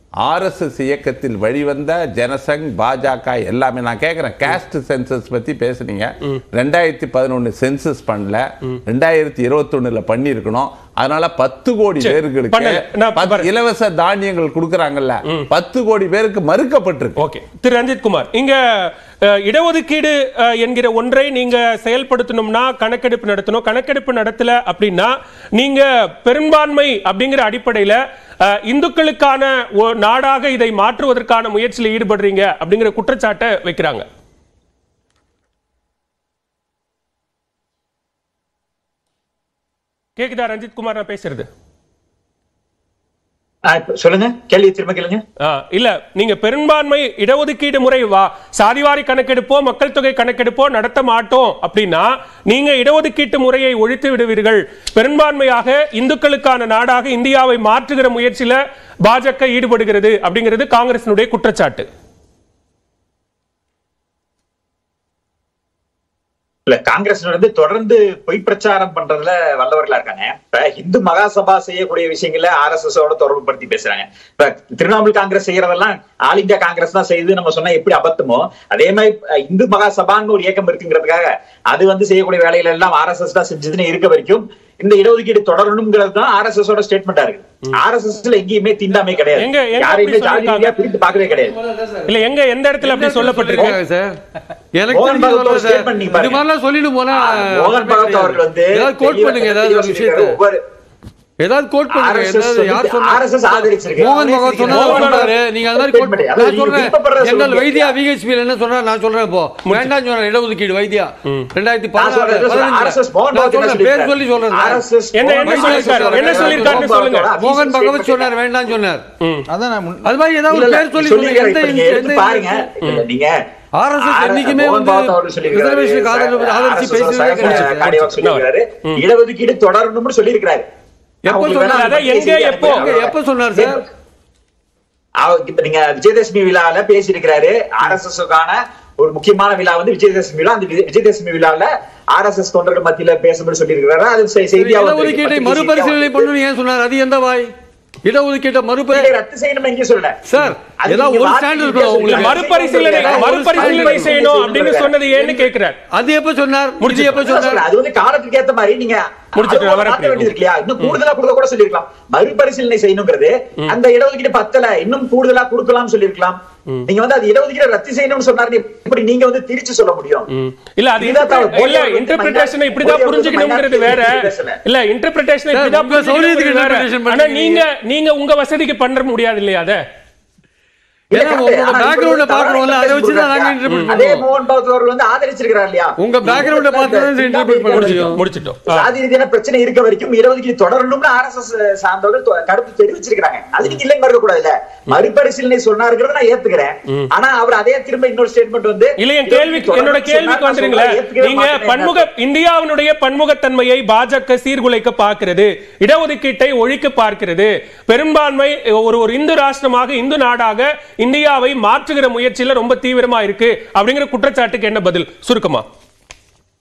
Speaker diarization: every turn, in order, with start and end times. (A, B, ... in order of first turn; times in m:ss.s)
0:00.2-0:17.2 A
0:12.0-0:13.5 B
0:17.2-0:34.0 B
0:40.2-0:41.5 B
0:43.7-0:45.2 C
0:45.4-1:01.9 B
1:06.7-1:31.6 C
1:29.3-1:30.8 B
1:31.7-1:32.0 D
1:32.1-1:33.8 B
1:32.8-1:34.2 D
1:34.7-1:40.4 D
1:34.9-1:36.4 C
1:37.1-1:40.6 C
1:41.4-1:54.8 D
1:41.9-1:48.0 C
1:44.7-1:45.3 B
1:49.6-1:50.0 B
1:52.0-1:58.4 C
1:55.1-1:57.3 B
1:55.4-1:59.0 D
1:59.2-1:59.5 B
1:59.5-2:00.1 A
2:00.0-2:02.6 D
2:00.5-2:03.4 C
2:03.8-2:08.1 D
2:04.0-2:10.6 C
2:07.4-2:09.0 B
2:11.2-2:13.8 D
2:11.3-2:13.8 C
2:11.7-2:12.9 B
2:15.2-2:26.3 C
2:24.6-2:27.5 D
2:28.0-2:29.2 D
2:28.9-2:30.2 C
2:30.3-2:34.3 D
2:30.8-2:35.0 C
2:32.0-2:35.8 B
2:35.9-2:37.6 D
2:36.8-2:37.2 B
2:37.1-2:50.3 C
2:39.4-2:41.0 B
2:50.3-2:59.8 B
2:51.0-2:54.6 C
2:55.5-2:57.6 D
3:01.1-3:22.1 C
3:01.1-3:04.3 D
3:03.7-3:04.0 B
3:06.0-3:08.2 D
3:07.7-3:08.9 B
3:19.0-3:35.6 B